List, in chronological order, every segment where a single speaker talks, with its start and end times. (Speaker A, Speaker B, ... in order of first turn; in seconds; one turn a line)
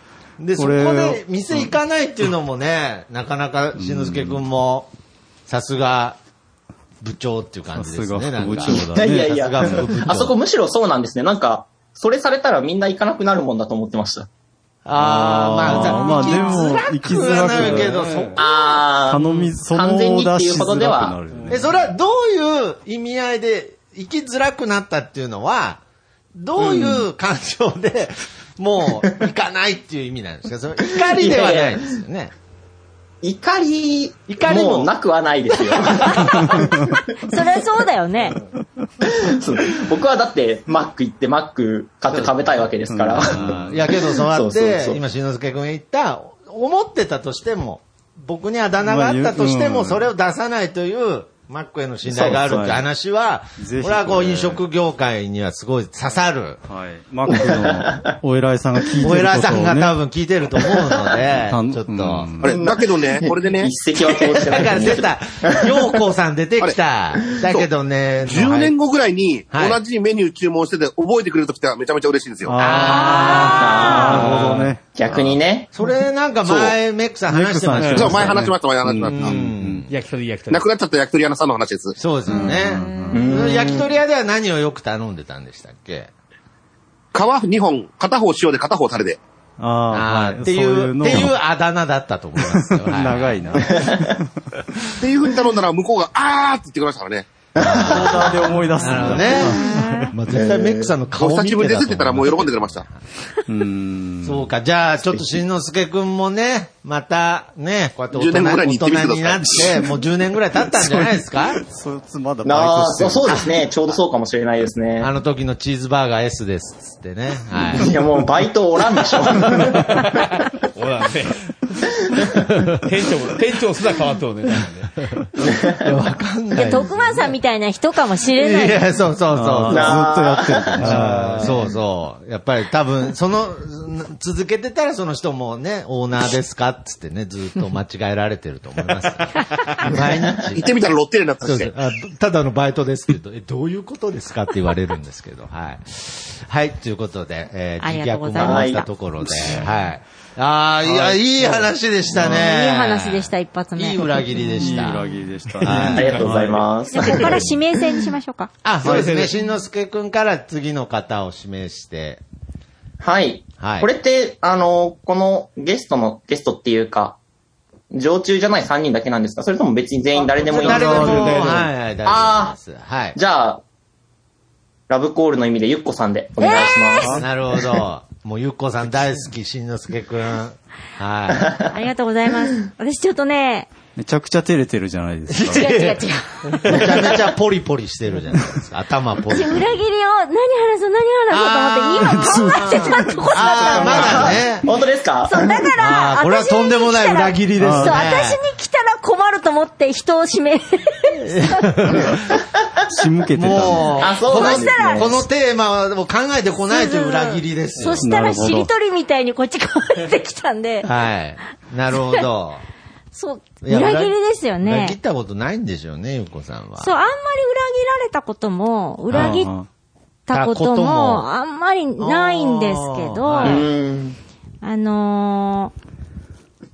Speaker A: 0.4-4.9
Speaker B: 0.6-1.7
Speaker B: 3.8-4.4
Speaker A: 5.5-6.2
Speaker A: 7.0-10.3
Speaker B: 7.8-9.9
Speaker C: 8.8-14.3
Speaker A: 14.8-18.4
Speaker B: 15.0-18.0
Speaker D: 15.8-16.4
Speaker D: 17.4-18.4
Speaker C: 18.4-21.2
Speaker B: 19.0-21.6
Speaker D: 21.3-21.6
Speaker A: 21.5-25.8
Speaker A: 26.4-32.3
Speaker C: 31.0-31.9
Speaker C: 33.2-36.9
Speaker A: 34.3-34.9
Speaker A: 35.9-36.5
Speaker E: 37.2-38.4
Speaker C: 39.0-45.0
Speaker B: 42.9-43.8
Speaker A: 43.3-56.6
Speaker B: 48.9-50.1
Speaker C: 52.1-52.4
Speaker B: 52.5-52.9
Speaker B: 53.6-54.6
Speaker B: 56.7-59.9
Speaker C: 57.7-58.1
Speaker A: 59.0-62.4
Speaker B: 61.5-62.6
Speaker F: 62.4-63.7
Speaker C: 62.5-65.8
Speaker A: 64.1-68.7
Speaker F: 68.3-72.5
Speaker A: 69.5-69.8
Speaker B: 72.5-75.3
Speaker A: 72.6-74.7
Speaker E: 72.8-74.1
Speaker C: 73.3-75.7
Speaker A: 75.7-78.5
Speaker F: 76.5-76.8
Speaker B: 77.3-79.8
Speaker D: 77.8-78.1
Speaker F: 77.9-79.4
Speaker A: 79.1-79.9
Speaker D: 79.9-80.7
Speaker F: 80.5-82.0
Speaker A: 82.0-86.1
Speaker B: 82.3-83.4
Speaker C: 83.1-83.9
Speaker F: 87.1-89.2
Speaker B: 89.6-91.4
Speaker A: 89.9-93.7
Speaker B: 92.5-94.2
Speaker C: 93.6-94.1
Speaker F: 95.0-97.3
Speaker C: 97.6-98.3
Speaker A: 97.6-103.0
Speaker B: 97.7-99.9
Speaker E: 99.5-100.1
Speaker C: 100.3-100.9
Speaker F: 101.2-102.8
Speaker B: 103.5-104.5
Speaker A: 104.2-111.6
Speaker F: 108.2-109.9
Speaker B: 110.8-113.5
Speaker C: 112.4-115.1
Speaker A: 115.0-117.9
Speaker C: 117.7-120.0
Speaker D: 120.0-121.5
Speaker D: 122.8-124.9
Speaker A: 125.7-127.3
Speaker E: 126.5-128.8
Speaker A: 128.3-130.1
Speaker B: 129.3-131.6
Speaker C: 129.7-130.9
Speaker A: 130.8-140.7
Speaker F: 140.6-141.7
Speaker A: 141.4-155.1
Speaker E: 147.8-148.9
Speaker C: 148.4-148.8
Speaker D: 150.9-151.7
Speaker E: 152.2-154.2
Speaker B: 154.6-156.6
Speaker D: 155.6-156.6
Speaker A: 155.6-156.1
Speaker C: 155.8-157.4
Speaker E: 156.9-158.5
Speaker A: 158.6-162.2
Speaker D: 158.8-159.4
Speaker C: 163.0-167.2
Speaker A: 163.6-163.9
Speaker C: 167.9-172.6
Speaker D: 170.2-171.6
Speaker A: 170.5-173.2
Speaker C: 173.2-173.6
Speaker C: 174.9-177.2
Speaker E: 176.4-177.1
Speaker A: 177.0-181.6
Speaker E: 181.7-183.7
Speaker B: 184.0-185.7
Speaker A: 185.3-186.0
Speaker E: 185.5-186.8
Speaker A: 186.7-189.7
Speaker E: 189.3-194.4
Speaker A: 191.3-194.7
Speaker B: 192.1-192.8
Speaker C: 193.6-195.6
Speaker E: 195.3-201.9
Speaker A: 195.8-198.4
Speaker B: 197.6-198.0
Speaker A: 201.2-202.3
Speaker B: 202.9-204.0
Speaker A: 203.3-208.1
Speaker C: 204.0-205.2
Speaker E: 204.1-205.2
Speaker E: 206.7-210.9
Speaker B: 208.0-208.7
Speaker A: 210.8-212.6
Speaker E: 213.1-215.0
Speaker A: 213.6-216.9
Speaker E: 216.8-219.5
Speaker B: 219.1-219.7
Speaker E: 220.3-223.6
Speaker A: 220.3-221.3
Speaker A: 222.0-223.6
Speaker C: 223.4-224.2
Speaker E: 224.6-225.7